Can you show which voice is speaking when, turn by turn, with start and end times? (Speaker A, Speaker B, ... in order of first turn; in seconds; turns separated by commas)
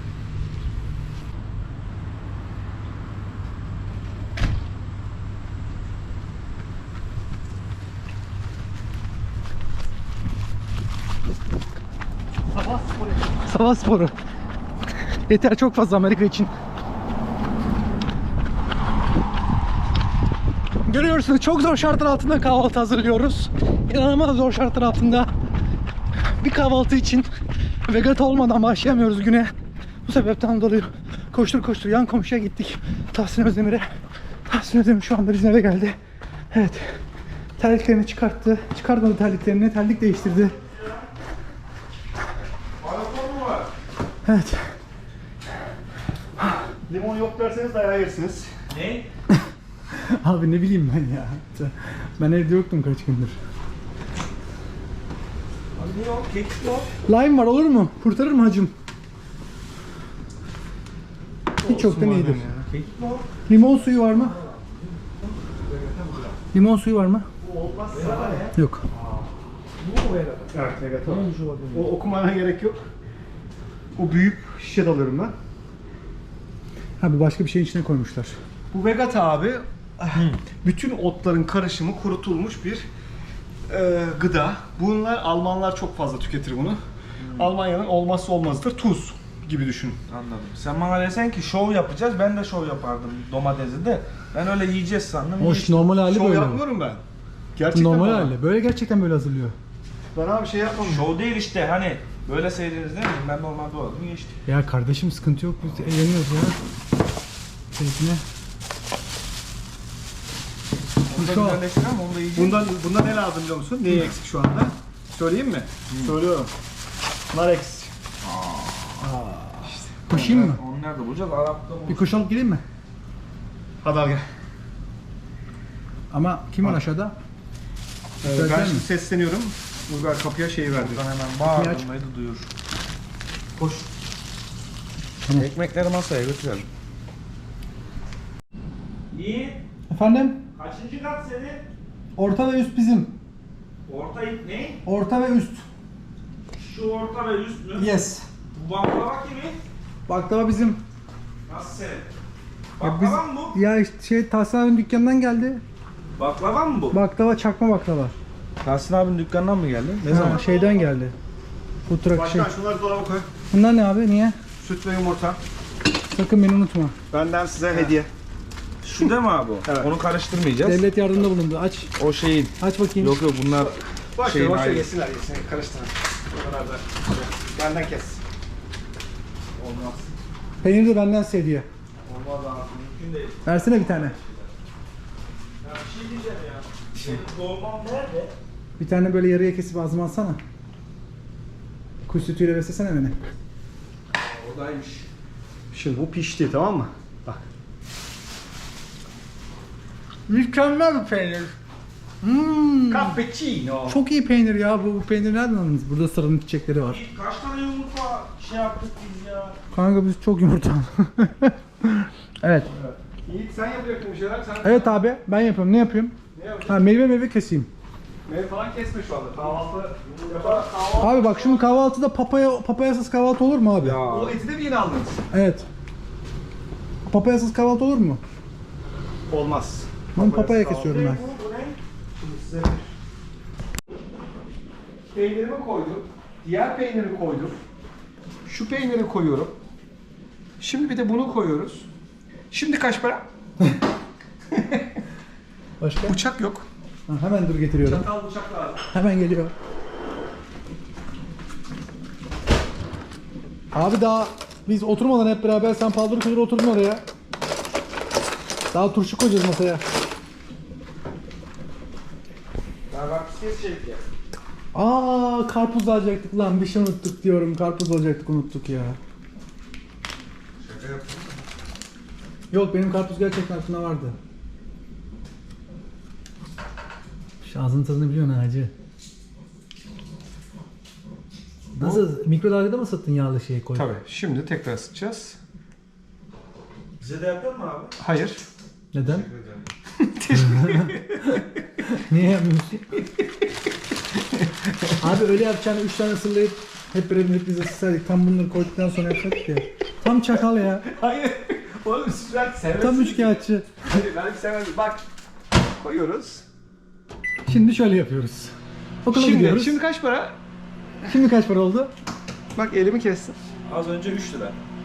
Speaker A: 12.6-14.2, Speaker B: 12.7-13.2, Speaker A: 15.3-16.5, Speaker A: 20.9-25.3, Speaker A: 26.4-27.3, Speaker A: 27.9-29.5, Speaker A: 30.1-33.9, Speaker A: 34.5-36.0, Speaker A: 36.5-37.0, Speaker A: 37.6-40.6, Speaker C: 42.8-43.7, Speaker A: 44.2-44.7, Speaker B: 46.9-48.5, Speaker C: 48.7-49.1, Speaker A: 50.0-53.4, Speaker C: 55.8-56.9, Speaker A: 57.0-58.7, Speaker A: 61.6-62.5, Speaker B: 61.6-62.7, Speaker C: 62.7-65.2, Speaker A: 63.5-64.4, Speaker B: 65.6-66.4, Speaker A: 66.5-67.3, Speaker B: 67.4-68.5, Speaker C: 67.9-71.9, Speaker A: 68.5-68.8, Speaker B: 70.5-72.8, Speaker B: 74.0-75.3, Speaker A: 77.0-78.4, Speaker B: 78.7-82.9, Speaker C: 80.2-80.4, Speaker B: 83.7-86.8, Speaker C: 87.2-87.6, Speaker B: 87.3-90.0, Speaker C: 90.1-95.9, Speaker A: 95.4-96.6, Speaker B: 96.0-97.0, Speaker B: 97.6-98.3, Speaker A: 97.7-99.5, Speaker B: 100.2-101.1, Speaker C: 100.8-104.3, Speaker A: 104.5-106.6, Speaker A: 107.7-108.2, Speaker C: 111.0-112.7, Speaker A: 111.1-111.6, Speaker B: 112.3-116.5, Speaker C: 115.9-116.2, Speaker B: 117.3-117.9, Speaker C: 118.2-119.1, Speaker A: 119.0-120.6, Speaker C: 120.1-122.1, Speaker A: 121.9-122.6, Speaker B: 123.8-124.2, Speaker A: 126.1-127.2, Speaker B: 128.2-131.0, Speaker A: 128.2-128.9, Speaker C: 130.7-132.5, Speaker A: 131.5-131.9, Speaker C: 135.3-136.7, Speaker C: 139.1-139.6, Speaker A: 139.9-140.4, Speaker C: 140.6-141.7, Speaker A: 142.2-143.2, Speaker C: 143.9-144.8, Speaker A: 144.8-145.7, Speaker C: 146.5-148.0, Speaker A: 147.8-148.3, Speaker C: 148.5-149.6, Speaker A: 150.1-150.8, Speaker C: 151.5-152.1, Speaker C: 152.8-153.6, Speaker A: 152.8-155.6, Speaker C: 156.2-157.0, Speaker A: 156.9-158.2, Speaker C: 158.6-160.7, Speaker A: 160.1-161.2, Speaker B: 160.1-160.7, Speaker A: 161.9-162.5, Speaker B: 162.1-163.3, Speaker A: 163.5-164.4, Speaker B: 164.6-165.4, Speaker A: 166.1-166.9, Speaker B: 167.1-168.1, Speaker C: 168.8-170.8, Speaker B: 169.6-169.9, Speaker A: 170.6-171.9, Speaker C: 171.9-174.9, Speaker A: 172.6-173.2, Speaker B: 173.5-178.2, Speaker C: 179.6-180.2, Speaker A: 180.6-181.7, Speaker C: 182.1-184.5, Speaker A: 183.4-184.2, Speaker C: 185.6-188.3, Speaker B: 186.9-187.2, Speaker A: 188.8-190.4, Speaker A: 192.1-193.2, Speaker C: 194.1-195.1, Speaker B: 195.7-197.4, Speaker A: 200.3-201.6, Speaker A: 202.2-203.2, Speaker B: 202.9-204.0, Speaker A: 203.9-207.0, Speaker C: 206.8-209.6, Speaker A: 209.7-212.7, Speaker B: 212.7-215.0, Speaker A: 214.6-217.7, Speaker B: 216.3-216.9, Speaker B: 218.3-221.8, Speaker C: 219.4-220.7, Speaker A: 221.0-224.0, Speaker C: 223.8-224.4, Speaker B: 224.1-225.2, Speaker A: 225.3-225.7, Speaker A: 227.1-228.2, Speaker B: 229.3-231.3, Speaker A: 230.2-231.2, Speaker C: 231.0-231.8, Speaker B: 232.2-232.9, Speaker B: 235.1-237.6, Speaker B: 238.5-239.6, Speaker B: 240.6-241.9, Speaker B: 242.5-243.3, Speaker A: 245.8-246.2, Speaker B: 246.1-246.7, Speaker A: 247.1-248.1, Speaker B: 247.8-248.8, Speaker A: 248.9-249.5, Speaker A: 253.7-257.0, Speaker A: 258.7-259.8, Speaker C: 262.9-264.0, Speaker A: 264.7-269.0, Speaker C: 270.6-271.4, Speaker A: 272.5-274.2, Speaker A: 277.4-278.7, Speaker A: 281.7-283.9, Speaker B: 281.8-282.1, Speaker B: 283.8-285.4, Speaker C: 287.0-288.0, Speaker B: 288.0-288.4, Speaker A: 288.9-289.3, Speaker C: 289.0-289.7, Speaker B: 290.0-291.6, Speaker A: 290.3-292.9, Speaker A: 295.0-300.9, Speaker B: 300.3-305.0, Speaker A: 302.8-303.8, Speaker B: 305.8-306.4, Speaker A: 307.5-309.8, Speaker B: 309.1-310.4, Speaker A: 311.1-311.9, Speaker B: 312.6-313.4, Speaker C: 313.7-314.6